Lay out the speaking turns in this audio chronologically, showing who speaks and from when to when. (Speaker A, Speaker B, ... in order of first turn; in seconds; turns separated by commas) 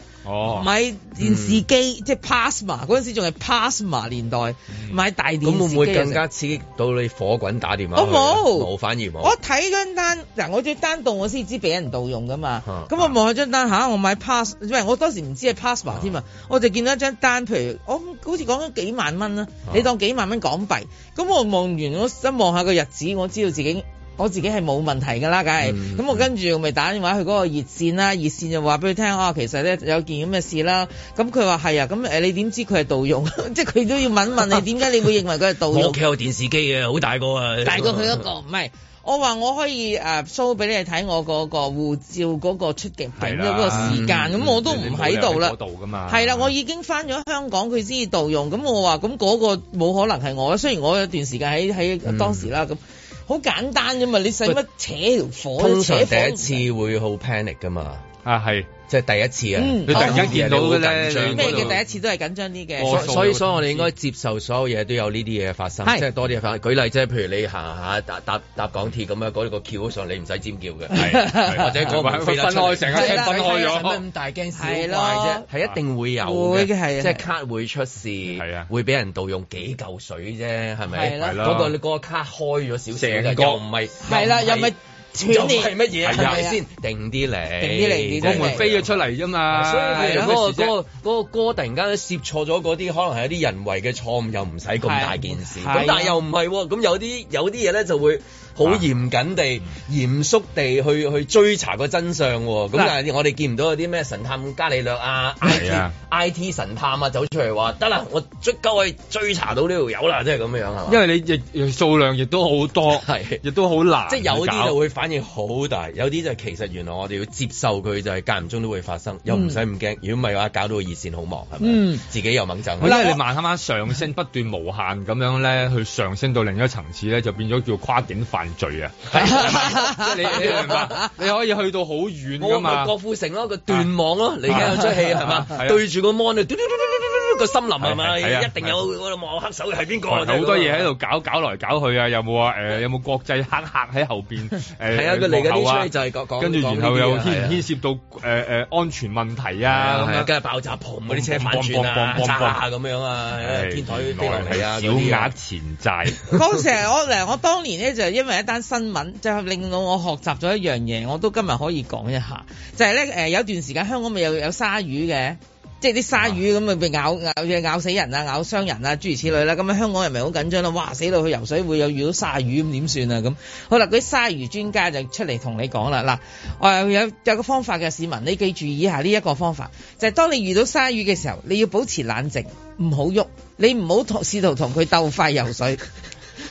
Speaker A: 0.2-0.7, Speaker B: 0.5-6.2, Speaker C: 1.2-1.6, Speaker C: 5.4-9.4, Speaker B: 8.0-8.7, Speaker B: 9.2-36.0, Speaker C: 12.7-13.1, Speaker C: 25.6-26.3, Speaker C: 35.7-38.2, Speaker B: 37.6-45.5, Speaker A: 43.2-46.5, Speaker C: 43.7-44.5, Speaker B: 46.1-56.6, Speaker C: 52.1-52.5, Speaker C: 55.6-58.1, Speaker A: 58.2-58.7, Speaker C: 58.9-61.8, Speaker B: 59.6-60.3, Speaker A: 59.9-61.8, Speaker B: 61.3-63.1, Speaker A: 62.8-63.9, Speaker C: 62.8-88.9, Speaker B: 70.9-71.8, Speaker A: 71.0-74.0, Speaker B: 72.9-73.8, Speaker B: 74.5-75.5, Speaker B: 76.2-77.2, Speaker A: 78.3-78.7, Speaker B: 80.9-81.4, Speaker A: 81.1-81.7, Speaker A: 83.0-83.6, Speaker B: 84.0-86.6, Speaker A: 86.0-86.5, Speaker B: 87.6-88.6, Speaker A: 88.2-90.8, Speaker C: 89.5-111.0, Speaker B: 89.9-90.3, Speaker B: 94.8-96.2, Speaker A: 105.4-105.9, Speaker A: 110.9-114.8, Speaker C: 112.9-113.4, Speaker C: 114.1-123.1, Speaker B: 119.3-119.6, Speaker B: 121.6-122.0, Speaker A: 122.8-132.9, Speaker B: 122.8-123.2, Speaker C: 129.1-131.0, Speaker B: 129.2-130.1, Speaker C: 132.4-140.9, Speaker A: 134.5-135.8, Speaker A: 137.8-138.8, Speaker A: 140.1-150.3, Speaker C: 144.9-147.6, Speaker C: 149.7-155.3, Speaker A: 151.1-152.6, Speaker A: 153.4-156.3, Speaker B: 156.3-185.8